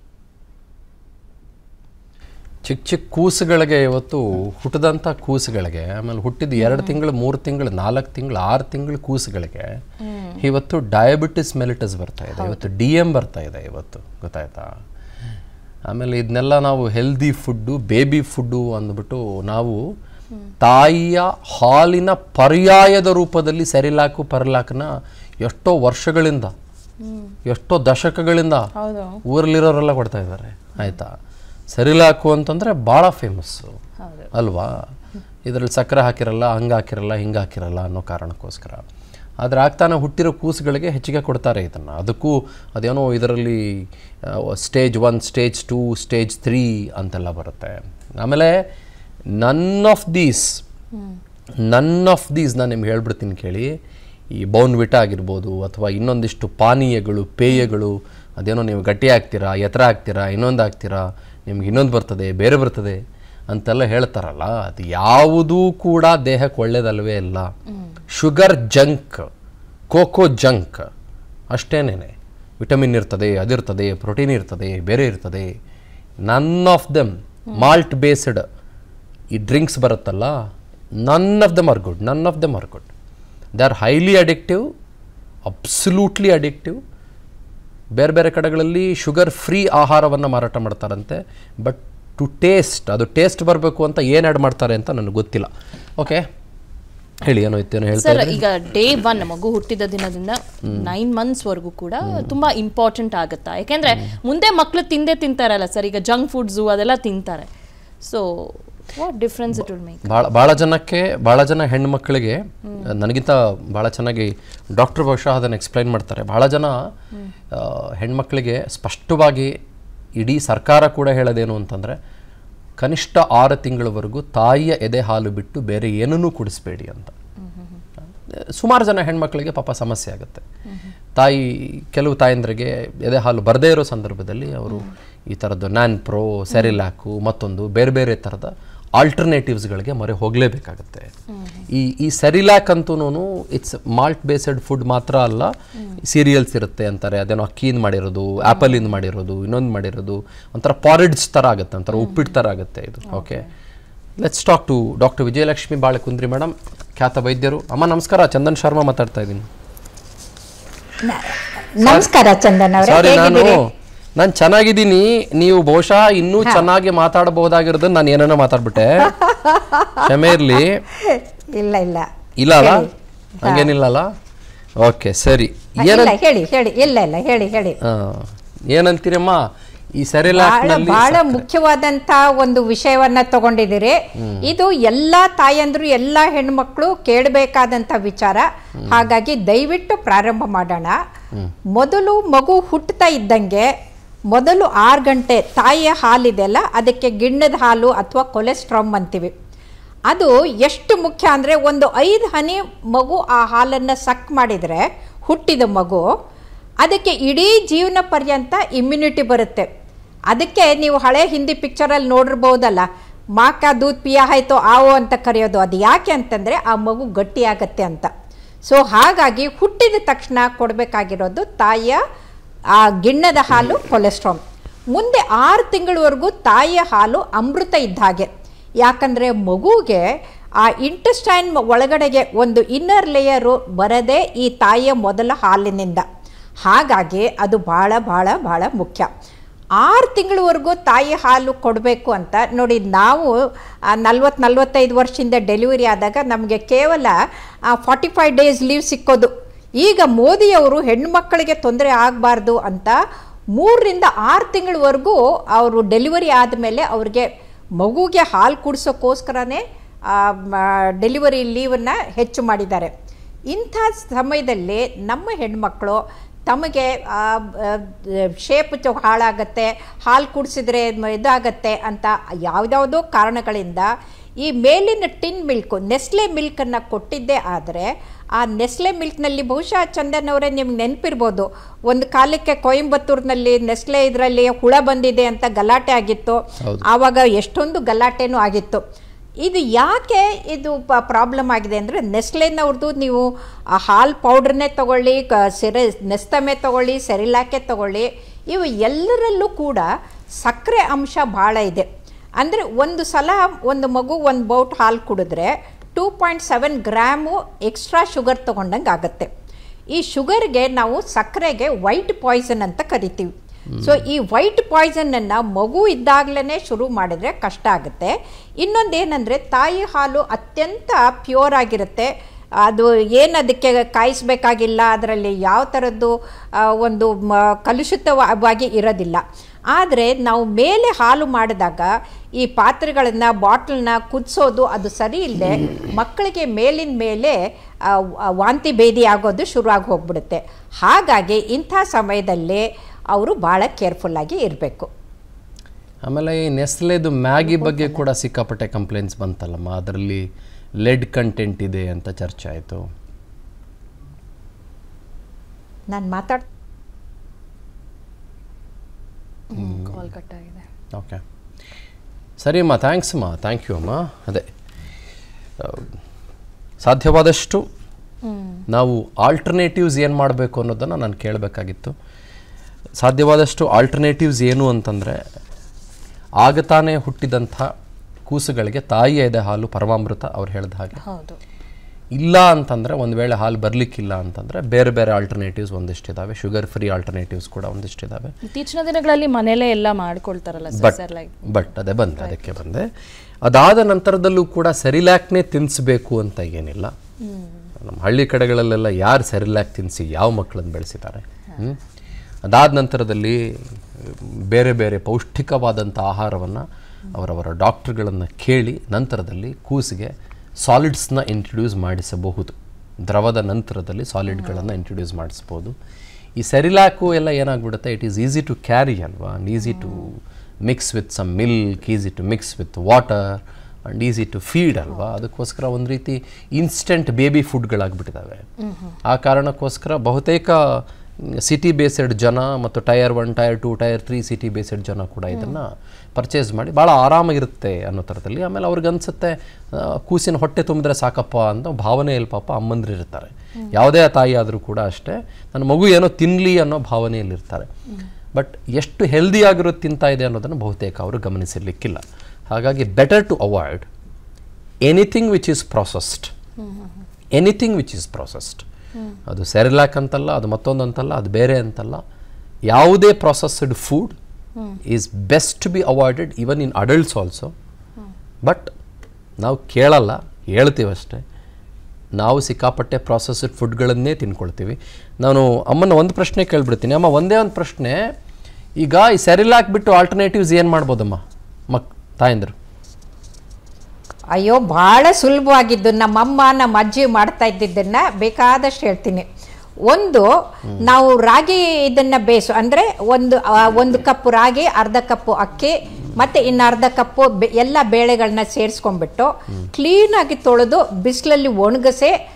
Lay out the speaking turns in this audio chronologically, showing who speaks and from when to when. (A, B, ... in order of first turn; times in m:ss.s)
0:02.6-0:09.8 A
0:06.6-0:07.0 B
0:10.0-0:10.4 B
0:10.4-0:14.7 A
0:12.4-0:12.6 B
0:15.9-0:19.8 A
0:20.6-0:26.5 A
0:27.0-0:27.3 B
0:27.4-0:28.7 A
0:28.8-0:29.2 B
0:29.3-0:31.1 A
0:31.7-0:33.7 A
0:34.0-0:34.3 B
0:34.3-0:34.7 A
0:35.4-0:38.8 A
0:39.4-0:48.6 A
0:49.4-0:50.6 A
0:51.6-0:53.7 A
0:54.3-1:03.0 A
1:03.5-1:07.5 A
1:08.1-1:09.3 A
1:09.9-1:10.8 A
1:11.5-1:15.5 A
1:16.2-1:18.4 A
1:19.3-1:20.3 A
1:21.0-1:22.9 A
1:23.6-1:24.6 A
1:25.4-1:26.8 A
1:28.0-1:36.3 A
1:37.2-1:38.4 A
1:38.0-1:47.5 B
1:40.6-1:40.9 A
1:48.0-1:50.1 B
1:49.5-1:56.8 A
1:57.5-1:59.5 A
2:00.2-2:02.0 A
2:02.8-2:07.1 A
2:07.4-2:07.8 B
2:08.3-2:10.4 A
2:11.1-2:21.1 A
2:21.3-2:21.6 B
2:21.7-2:33.5 A
2:28.5-2:28.8 B
2:31.9-2:32.3 B
2:33.0-2:33.5 B
2:34.2-2:39.5 A
2:41.0-2:43.6 C
2:41.8-2:42.1 A
2:42.8-2:49.1 A
2:49.0-2:50.0 C
2:50.0-2:50.8 A
2:50.6-2:52.0 C
2:52.4-2:52.9 A
2:52.6-2:52.9 C
2:53.4-2:54.1 A
2:53.4-2:53.7 C
2:54.8-2:56.1 A
2:55.8-2:57.8 C
2:57.8-3:01.4 A
3:00.3-3:10.9 C
3:04.2-3:04.5 A
3:08.8-3:09.1 A
3:11.8-3:13.7 C
3:14.3-3:19.3 C
3:20.1-3:26.0 C
3:26.8-3:29.7 C
3:30.3-3:32.8 C
3:33.4-3:38.1 C
3:38.7-3:42.0 C
3:42.8-3:44.4 C
3:44.9-3:48.3 C
3:48.8-3:50.0 C
3:50.6-3:56.0 C
3:56.7-3:59.1 C
3:59.8-4:03.3 C
4:03.9-4:07.1 C
4:07.7-4:13.0 C
4:13.6-4:17.2 C
4:17.8-4:22.9 C
4:23.5-4:33.9 C
4:34.4-4:48.8 C
4:49.4-4:59.9 C
5:00.4-5:01.9 C
5:02.4-5:09.3 C
5:09.9-5:22.1 C
5:13.8-5:14.0 A
5:22.6-5:29.2 C
5:29.7-5:31.9 C
5:32.4-5:37.4 C
5:37.9-5:44.9 C
5:46.0-5:50.2 A
5:47.5-5:48.0 C
5:50.8-5:52.8 A
5:55.9-5:56.4 C
5:59.5-6:00.6 B
5:59.5-6:00.0 A
6:00.9-6:01.2 A
6:02.4-6:04.4 A
6:05.6-6:05.9 A
6:06.8-6:07.6 A
6:08.2-6:08.6 B
6:08.7-6:11.9 A
6:13.0-6:15.2 A
6:16.4-6:17.7 A
6:18.3-6:21.0 A
6:21.0-6:21.4 B
6:22.2-6:28.3 A
6:28.5-6:31.3 B
6:30.7-6:32.9 A
6:32.2-6:32.5 B
6:33.4-6:36.9 A
6:37.2-6:37.6 B
6:37.8-6:41.8 A
6:42.5-6:50.1 A
6:50.6-6:55.7 A
6:56.4-7:08.4 A
7:08.6-7:08.9 B
7:09.0-7:27.7 A
7:15.3-7:15.6 B
7:28.3-7:33.9 A
7:34.8-7:36.3 A
7:36.6-7:36.9 B
7:37.3-7:38.6 A
7:39.3-7:42.0 A
7:42.7-7:44.2 A
7:44.8-7:47.5 A
7:48.4-7:48.7 A
7:49.4-7:51.2 A
7:52.2-7:58.0 A
7:58.8-8:02.5 A
8:04.3-8:09.2 C
8:09.9-8:10.3 C
8:10.8-8:22.1 C